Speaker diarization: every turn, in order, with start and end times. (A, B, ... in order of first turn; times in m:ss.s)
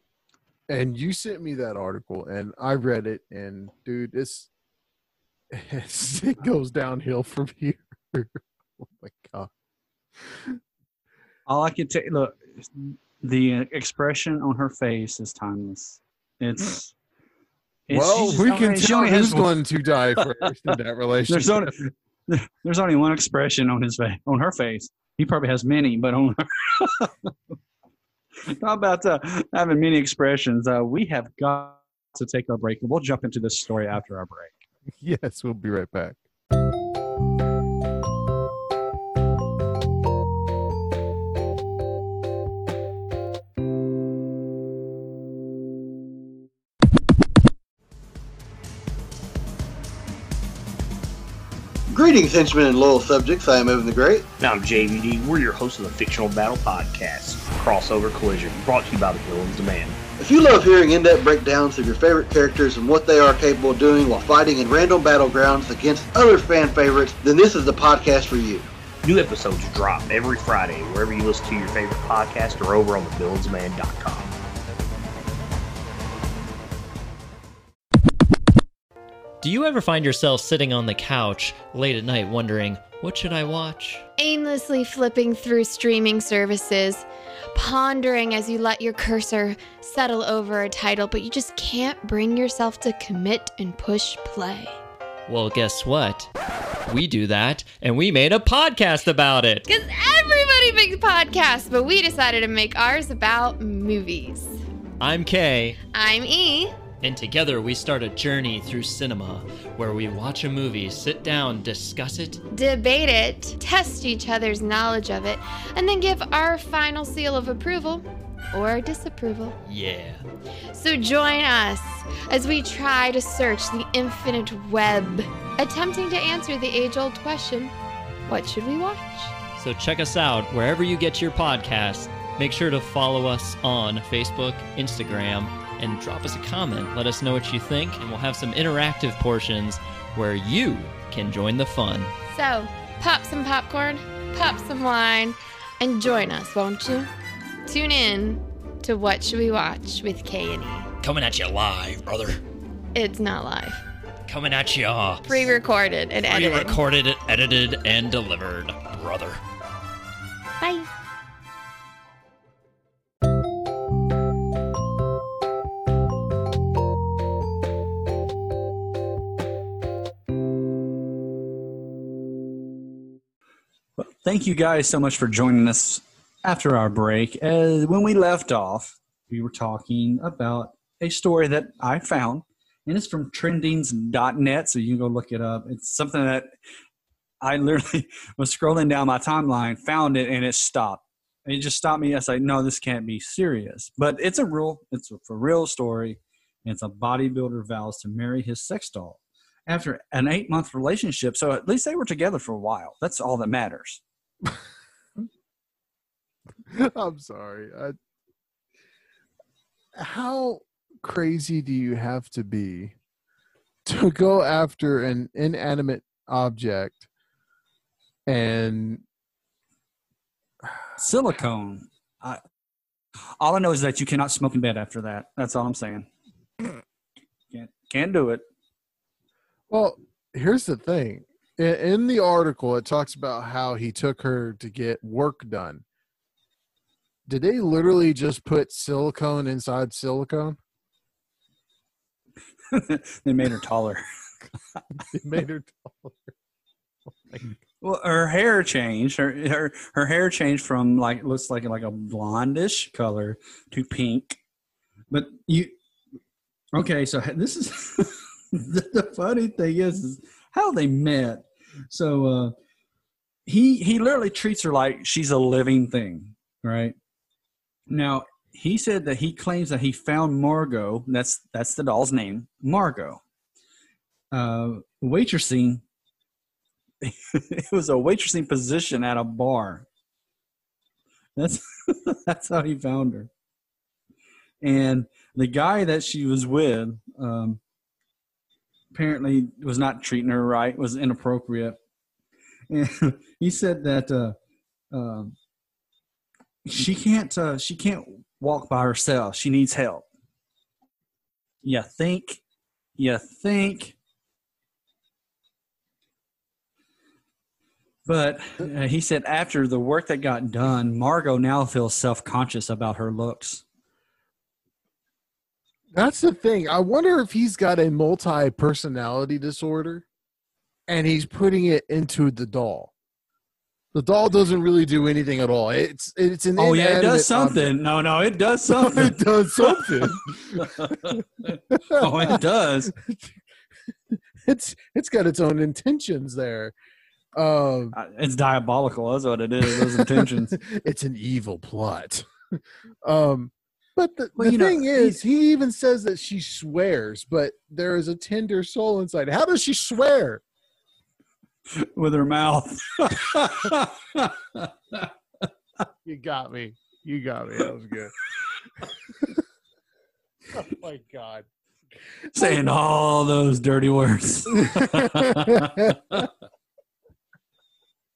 0:00.7-0:04.5 A
0:05.5-0:09.5 A
0:10.2-0:10.6 A
0:11.5-0:16.9 B
0:17.9-0:19.7 B
0:17.9-0:21.7 A
0:21.3-0:27.3 B
0:28.5-0:34.6 B
0:35.0-0:36.2 A
0:51.9-0:54.3 C
0:54.4-1:00.0 D
1:00.2-1:08.7 C
1:09.0-1:14.3 D
1:19.4-1:24.1 E
1:24.2-1:34.8 F
1:35.3-1:36.3 E
1:36.9-1:39.7 E
1:39.7-1:44.6 F
1:45.0-1:45.8 E
1:45.9-1:46.8 F
1:47.0-1:52.4 E
1:52.5-1:59.6 F
1:59.7-2:00.2 E
2:00.7-2:07.7 F
2:08.3-2:09.3 F
2:09.6-2:22.1 E
2:22.3-2:27.1 F
2:27.7-2:30.9 F
2:31.0-2:32.4 E
2:33.0-2:33.8 F
2:34.3-2:35.5 E
2:35.3-2:36.8 F
2:36.3-2:39.4 E
2:40.6-2:40.9 F
2:54.0-3:06.5 B
3:07.4-3:24.0 B
3:26.7-3:28.0 A
3:30.0-3:33.0 A
3:33.8-3:37.1 A
3:38.3-3:39.0 A
3:41.0-3:42.4 B
3:43.4-3:46.1 B
3:47.5-3:48.4 B
3:49.7-3:55.8 A
3:57.3-4:00.6 A
4:02.7-4:04.0 B
4:05.0-4:06.3 A
4:07.8-4:14.4 B
4:15.1-4:15.8 B
4:16.7-4:22.6 B
4:23.5-4:27.0 B
4:27.9-4:33.2 B
4:34.3-4:35.8 B
4:37.0-4:39.9 B
4:41.4-4:43.3 B
4:44.6-4:47.6 B
4:48.9-4:51.8 B
4:52.7-4:54.4 B
4:54.9-4:55.4 B
4:56.6-5:00.1 B
5:01.6-5:02.4 B
5:03.0-5:04.0 B
5:08.1-5:13.6 B
5:16.0-5:20.1 A
5:20.9-5:22.9 A
5:23.9-5:27.7 A
5:26.6-5:32.9 B
5:28.7-5:32.4 A
5:32.9-5:33.3 A
5:34.1-5:36.7 A
5:37.4-5:38.0 A
5:37.9-5:40.6 B
5:39.7-5:50.4 A
5:44.4-5:45.2 B
5:51.8-5:55.1 B
5:56.0-5:58.1 A
5:58.8-5:59.4 A
6:00.5-6:01.5 A
6:02.3-6:06.3 B
6:04.5-6:06.3 A